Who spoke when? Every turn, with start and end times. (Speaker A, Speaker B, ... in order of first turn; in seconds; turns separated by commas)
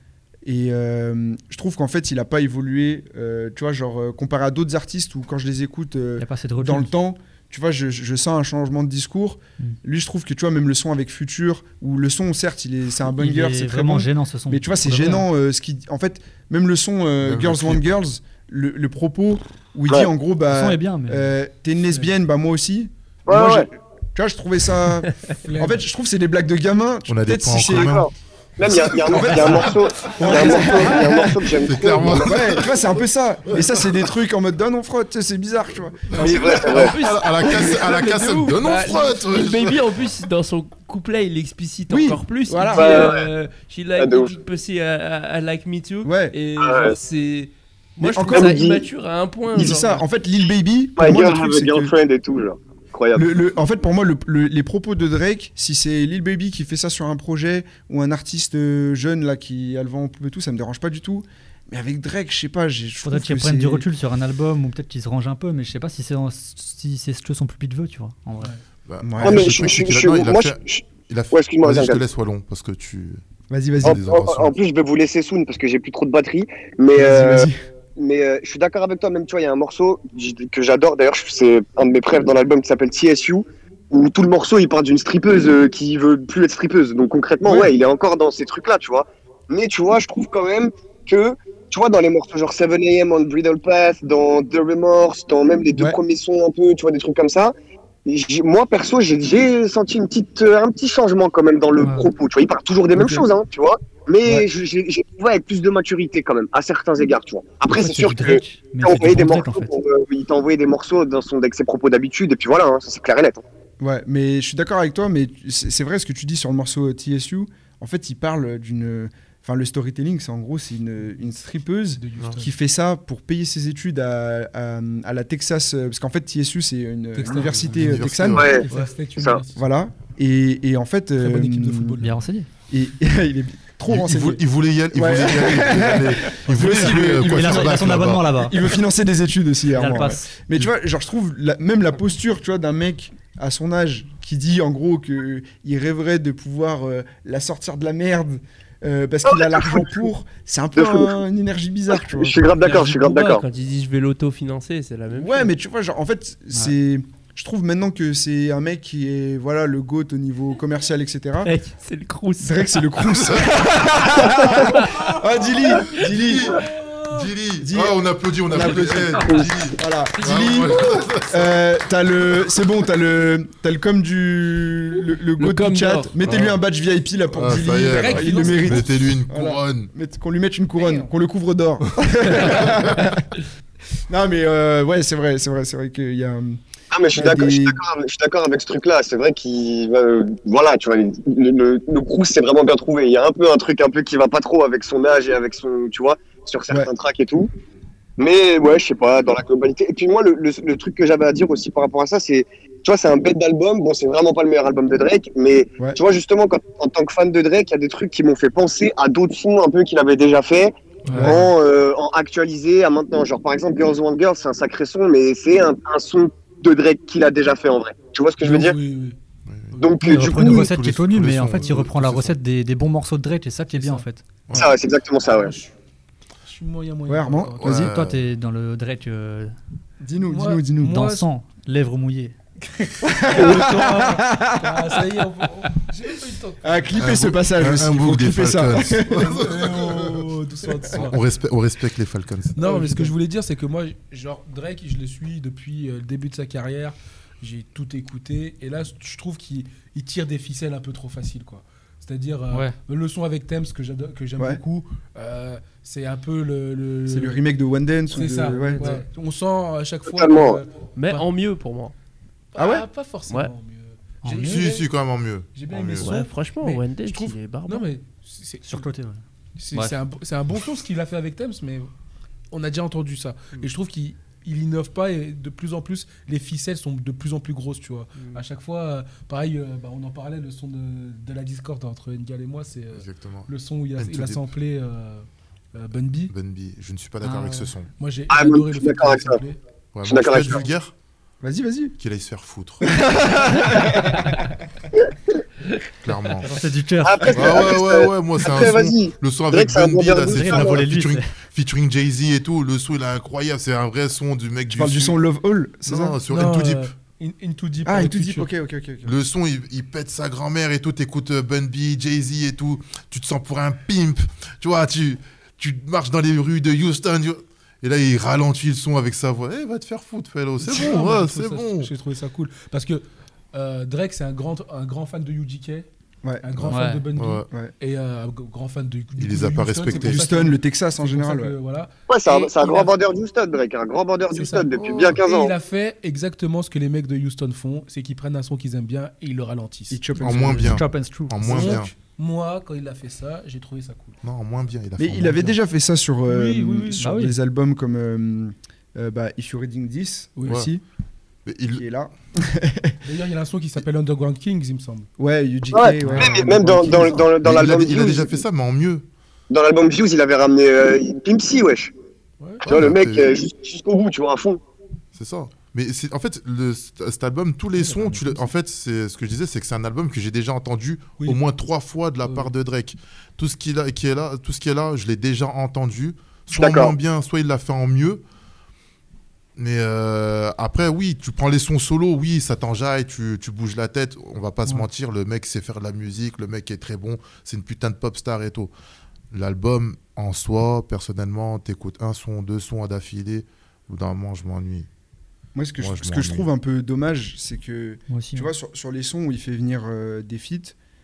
Speaker A: 0.5-28.1, Speaker B: 6.2-6.9, Speaker B: 13.1-15.3, Speaker C: 17.2-17.9, Speaker B: 20.5-21.3, Speaker D: 23.3-23.7, Speaker E: 25.4-25.9, Speaker C: 27.1-28.1, Speaker D: 27.6-32.4, Speaker C: 28.7-30.4, Speaker A: 29.1-31.4, Speaker E: 30.4-30.8, Speaker C: 31.6-32.8, Speaker A: 32.0-36.3, Speaker C: 33.5-33.9, Speaker C: 36.1-39.8, Speaker F: 36.2-50.0, Speaker D: 36.2-37.0, Speaker A: 41.9-43.2, Speaker D: 42.7-43.3, Speaker D: 44.0-44.3, Speaker A: 46.0-46.4, Speaker D: 46.6-47.0, Speaker A: 48.0-48.6, Speaker D: 48.3-48.8, Speaker A: 49.5-51.9, Speaker D: 51.0-53.4, Speaker A: 53.1-63.9, Speaker B: 63.0-68.5, Speaker C: 68.9-73.2, Speaker A: 69.0-69.5, Speaker D: 69.2-72.0, Speaker A: 73.5-74.0, Speaker C: 73.8-74.6, Speaker D: 73.8-97.5, Speaker A: 76.9-77.6, Speaker A: 87.5-87.7, Speaker D: 98.0-113.4, Speaker B: 101.8-102.1, Speaker B: 107.7-109.7, Speaker A: 113.8-128.6, Speaker E: 122.0-122.5, Speaker E: 127.2-129.6, Speaker C: 127.6-128.6, Speaker D: 128.3-129.4, Speaker A: 129.5-132.0, Speaker E: 131.2-132.3, Speaker B: 132.0-132.5, Speaker A: 132.7-152.5, Speaker C: 133.9-138.8, Speaker B: 136.6-138.6, Speaker B: 139.7-140.3, Speaker D: 149.2-149.9, Speaker D: 150.8-151.1, Speaker D: 151.9-153.4, Speaker F: 152.6-155.5, Speaker B: 152.7-153.2, Speaker A: 155.1-161.5, Speaker F: 161.4-163.0, Speaker A: 162.4-166.6, Speaker C: 163.2-163.5, Speaker F: 164.2-166.0, Speaker C: 164.2-164.9, Speaker C: 165.9-171.6, Speaker E: 166.5-167.3, Speaker A: 167.6-183.3, Speaker F: 175.4-176.2, Speaker C: 176.2-176.6, Speaker C: 177.4-179.9, Speaker E: 177.9-179.0, Speaker A: 184.1-186.6, Speaker D: 186.9-197.5, Speaker A: 187.1-187.8, Speaker D: 198.2-218.8, Speaker E: 211.1-211.4, Speaker C: 211.2-211.5, Speaker E: 218.4-219.2, Speaker C: 219.5-219.8, Speaker D: 219.8-220.6, Speaker B: 220.0-224.2, Speaker C: 220.4-222.4, Speaker E: 223.7-224.1, Speaker D: 224.5-225.6, Speaker E: 225.3-225.7, Speaker E: 226.4-227.9, Speaker A: 227.1-227.9, Speaker C: 227.6-228.3, Speaker B: 227.7-229.5, Speaker A: 230.0-231.0, Speaker E: 230.3-231.3, Speaker B: 230.8-232.4, Speaker E: 232.8-237.0, Speaker A: 233.0-235.1, Speaker A: 236.6-239.4, Speaker C: 237.0-240.3, Speaker E: 239.1-241.2, Speaker C: 240.9-242.8, Speaker E: 242.5-257.4, Speaker A: 242.7-243.1, Speaker B: 252.5-252.8, Speaker A: 254.4-254.6, Speaker A: 257.1-258.9, Speaker E: 258.1-261.3, Speaker B: 258.6-259.0, Speaker D: 260.1-260.6, Speaker F: 261.0-261.9, Speaker E: 262.5-264.9, Speaker A: 262.6-262.9, Speaker B: 264.2-264.7, Speaker C: 264.4-266.1, Speaker E: 265.5-268.9, Speaker F: 266.0-267.9, Speaker B: 268.6-269.9, Speaker E: 269.6-271.9, Speaker E: 272.5-286.3, Speaker F: 278.2-278.4, Speaker C: 283.0-284.4, Speaker C: 286.3-287.9, Speaker B: 287.2-287.7, Speaker E: 288.0-289.6, Speaker D: 288.3-289.4, Speaker C: 289.9-290.9, Speaker D: 290.1-290.7, Speaker A: 291.4-292.0, Speaker C: 292.0-293.0, Speaker A: 292.8-294.4, Speaker C: 296.0-296.6, Speaker B: 296.4-297.7, Speaker D: 297.0-300.9, Speaker C: 297.3-305.2, Speaker B: 300.3-301.3, Speaker A: 304.7-306.2, Speaker C: 305.9-306.9, Speaker E: 306.3-308.5, Speaker A: 307.9-309.2, Speaker C: 309.0-321.9, Speaker E: 320.6-325.9, Speaker E: 326.4-331.9, Speaker C: 326.6-327.5, Speaker B: 326.7-327.1, Speaker C: 329.2-330.3, Speaker A: 329.9-331.6, Speaker D: 332.1-335.6, Speaker F: 332.3-332.9, Speaker E: 334.3-340.1, Speaker C: 334.8-335.2, Speaker A: 339.9-340.7, Speaker B: 340.2-341.8, Speaker C: 340.2-341.9, Speaker E: 341.4-344.2, Speaker C: 344.2-345.6, Speaker A: 345.0-350.8, Speaker E: 346.3-347.1, Speaker B: 347.0-347.4, Speaker E: 350.4-350.7, Speaker C: 351.5-351.8, Speaker A: 351.7-353.0, Speaker E: 353.0-355.1, Speaker A: 355.2-357.3, Speaker D: 355.7-358.4, Speaker C: 356.9-359.1, Speaker A: 357.9-358.3, Speaker D: 359.5-361.9, Speaker E: 362.4-362.7, Speaker C: 362.6-363.3, Speaker D: 362.6-364.6, Speaker C: 365.1-378.2, Speaker E: 367.8-368.5, Speaker E: 372.2-372.5, Speaker D: 376.5-376.9, Speaker C: 379.6-388.7, Speaker C: 389.3-394.9, Speaker A: 395.6-400.8, Speaker C: 395.8-396.5, Speaker B: 398.1-398.5